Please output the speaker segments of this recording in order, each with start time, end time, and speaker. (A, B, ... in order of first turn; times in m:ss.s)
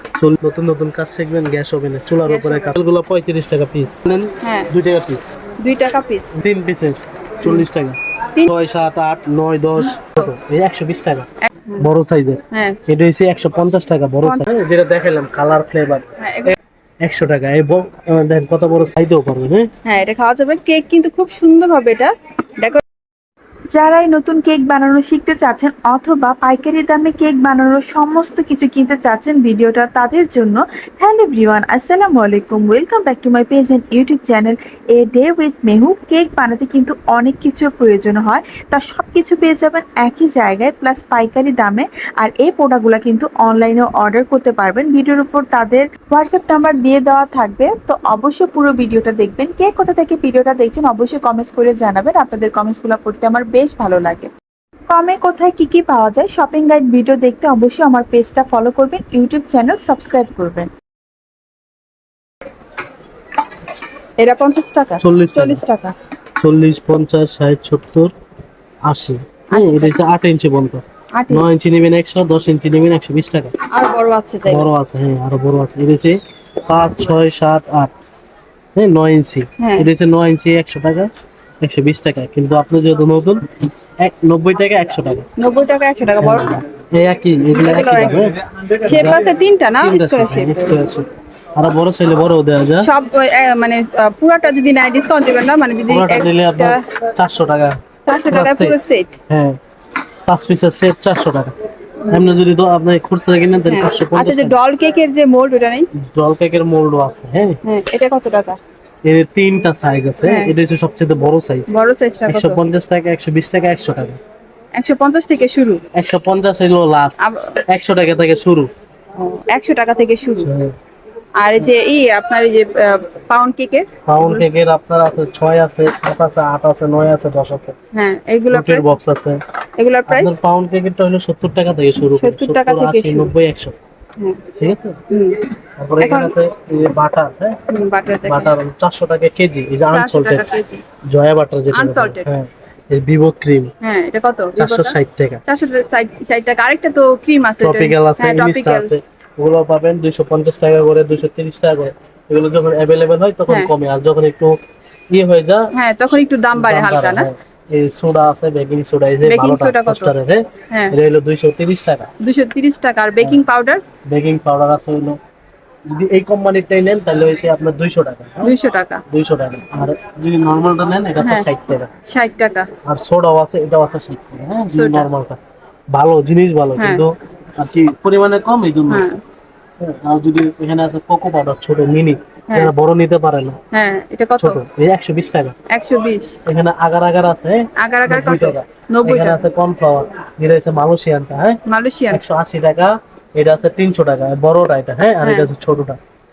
0:00.2-0:05.2 A
0:02.3-0:02.8 B
0:04.4-0:04.7 B
0:05.6-0:06.4 B
0:06.3-0:11.3 A
0:11.5-0:11.9 B
0:11.8-0:19.7 A
0:12.5-0:12.8 B
0:16.2-0:16.5 B
0:19.8-0:22.8 B
0:23.7-0:54.3 C
0:54.9-1:00.7 C
1:04.2-1:06.0 B
1:05.0-1:05.6 A
1:06.4-1:08.1 A
1:08.9-1:13.5 A
1:09.5-1:10.0 B
1:11.1-1:11.5 B
1:13.7-1:14.7 B
1:14.5-1:17.9 A
1:18.8-1:21.1 A
1:19.6-1:19.9 B
1:21.6-1:23.4 A
1:24.0-1:25.2 A
1:25.4-1:26.6 B
1:26.2-1:28.3 A
1:27.5-1:28.2 B
1:28.8-1:30.8 B
1:28.8-1:29.2 A
1:29.8-1:32.9 A
1:32.8-1:36.8 B
1:35.9-1:37.8 A
1:38.0-1:39.2 B
1:38.3-1:38.8 A
1:39.3-1:39.6 A
1:40.3-1:41.5 A
1:42.0-1:42.4 B
1:42.1-1:44.6 A
1:43.7-1:45.9 B
1:46.0-1:47.6 A
1:47.6-1:48.6 B
1:49.0-1:51.7 A
1:50.3-1:50.5 B
1:51.7-1:52.6 B
1:52.3-1:54.2 A
1:54.8-1:55.8 B
1:55.9-1:58.7 A
1:57.2-1:57.6 B
1:59.2-2:00.5 B
2:00.4-2:00.7 A
2:01.4-2:04.5 B
2:04.1-2:07.8 A
2:07.9-2:08.9 B
2:08.5-2:09.4 A
2:09.8-2:10.4 B
2:10.1-2:13.8 A
2:12.0-2:13.3 B
2:14.6-2:15.0 A
2:15.1-2:16.4 B
2:15.8-2:17.6 A
2:17.7-2:18.5 B
2:18.3-2:20.5 A
2:19.9-2:20.8 B
2:21.1-2:23.7 A
2:21.7-2:22.3 B
2:23.8-2:28.9 B
2:24.6-2:25.4 A
2:27.6-2:34.6 A
2:35.1-2:42.1 A
2:35.7-2:37.3 B
2:39.2-2:40.1 B
2:40.7-2:41.0 B
2:42.2-2:43.8 B
2:44.1-2:45.2 A
2:45.9-2:48.5 A
2:48.4-2:49.0 B
2:49.1-2:51.9 A
2:51.2-2:51.5 B
2:52.1-2:52.7 B
2:52.8-2:55.4 A
2:54.7-2:55.1 B
2:55.9-2:59.1 A
2:56.8-2:57.0 B
2:58.9-2:59.2 B
2:59.8-3:03.6 A
3:03.7-3:04.6 B
3:04.4-3:05.5 A
3:05.7-3:06.4 B
3:06.5-3:16.0 A
3:07.8-3:09.4 B
3:11.7-3:12.2 B
3:15.2-3:15.5 B